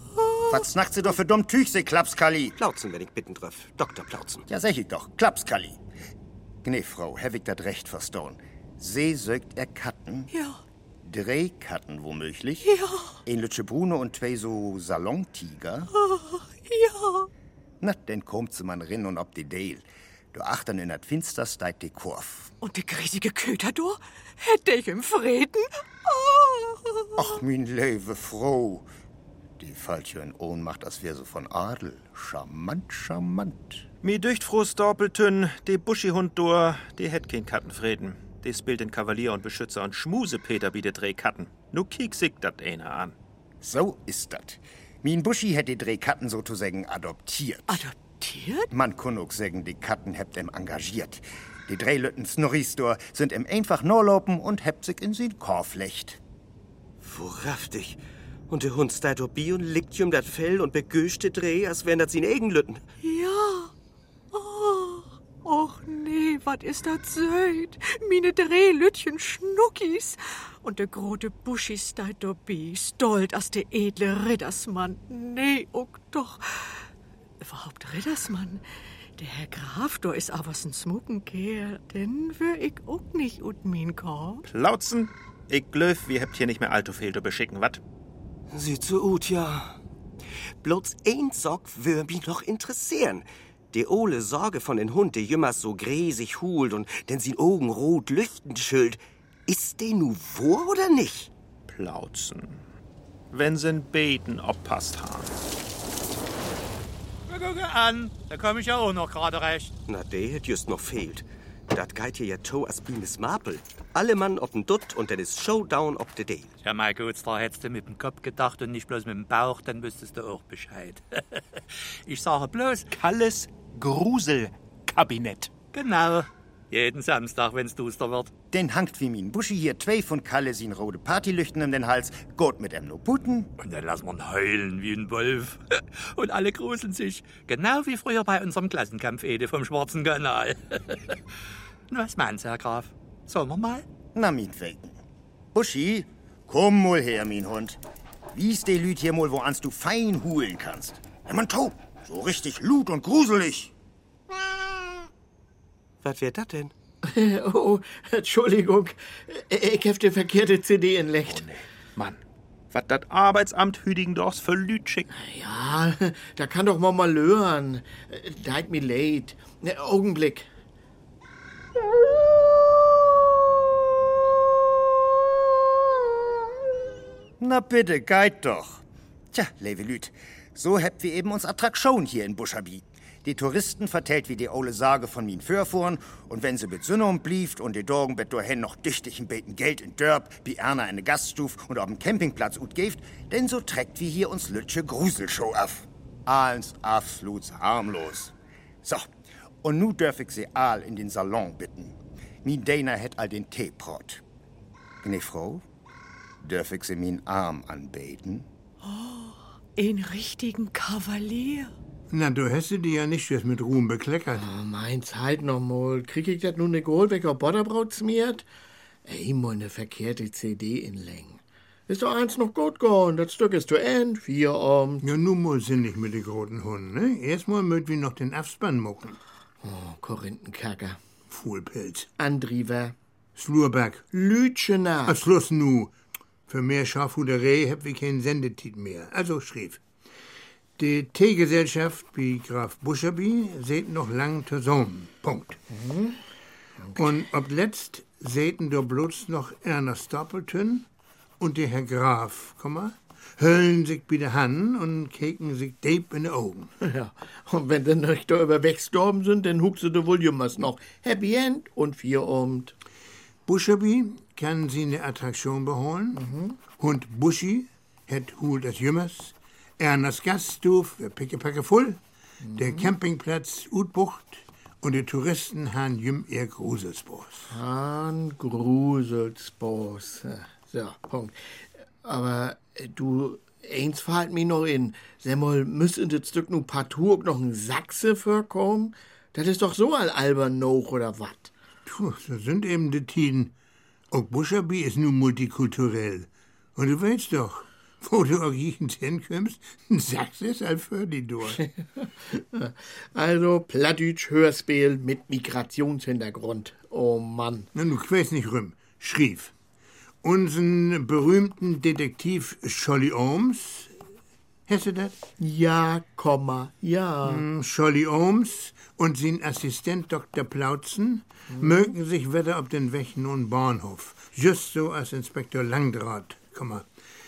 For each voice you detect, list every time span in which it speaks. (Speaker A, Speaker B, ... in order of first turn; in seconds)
Speaker A: 0.2-0.7, 10.3-10.6, 12.6-13.2, 15.9-17.3, 22.6-27.4, 47.7-48.7, 63.0-63.7, 64.3-76.8, 77.4-78.6, 79.2-84.5, 208.8-211.7
Speaker B: 0.5-2.5, 4.5-5.8, 6.6-10.3, 11.0-12.6, 13.2-15.9, 17.8-22.5, 27.2-28.9, 29.6-33.8, 43.6-47.8, 48.7-56.2, 128.5-133.5, 144.1-144.9, 145.5-147.8, 148.3-153.7, 177.4-198.3, 198.8-199.1, 199.6-204.2, 205.0-205.6, 206.4-208.5
Speaker C: 2.5-4.4, 57.0-62.8, 88.5-89.8, 90.6-101.3, 109.9-116.5, 156.0-156.7
Speaker D: 34.0-43.1, 84.5-87.8, 101.7-102.7, 103.3-105.4, 122.9-125.5, 161.3-165.1
Speaker E: 107.3-109.7, 116.6-122.8, 125.7-128.3, 133.6-141.2, 141.9-143.8
Speaker F: 157.0-161.4, 165.1-170.5, 214.3-218.4, 219.0-225.0, 229.6-231.0, 232.2-232.9, 234.1-235.2, 245.7-246.2, 256.8-262.7, 266.1-266.6, 272.4-272.9, 277.5-291.5, 302.0-307.7, 315.4-317.4, 321.5-321.9
Speaker G: 212.1-214.5, 225.0-229.2, 231.3-232.1, 233.3-234.1, 235.1-235.9, 236.5-239.8, 240.8-245.6, 246.9-250.9, 251.4-256.7, 263.4-266.2, 266.8-272.0, 272.5-277.5, 291.8-293.5, 294.1-301.6, 307.7-309.5, 310.2-313.9, 314.7-315.2, 317.2-326.9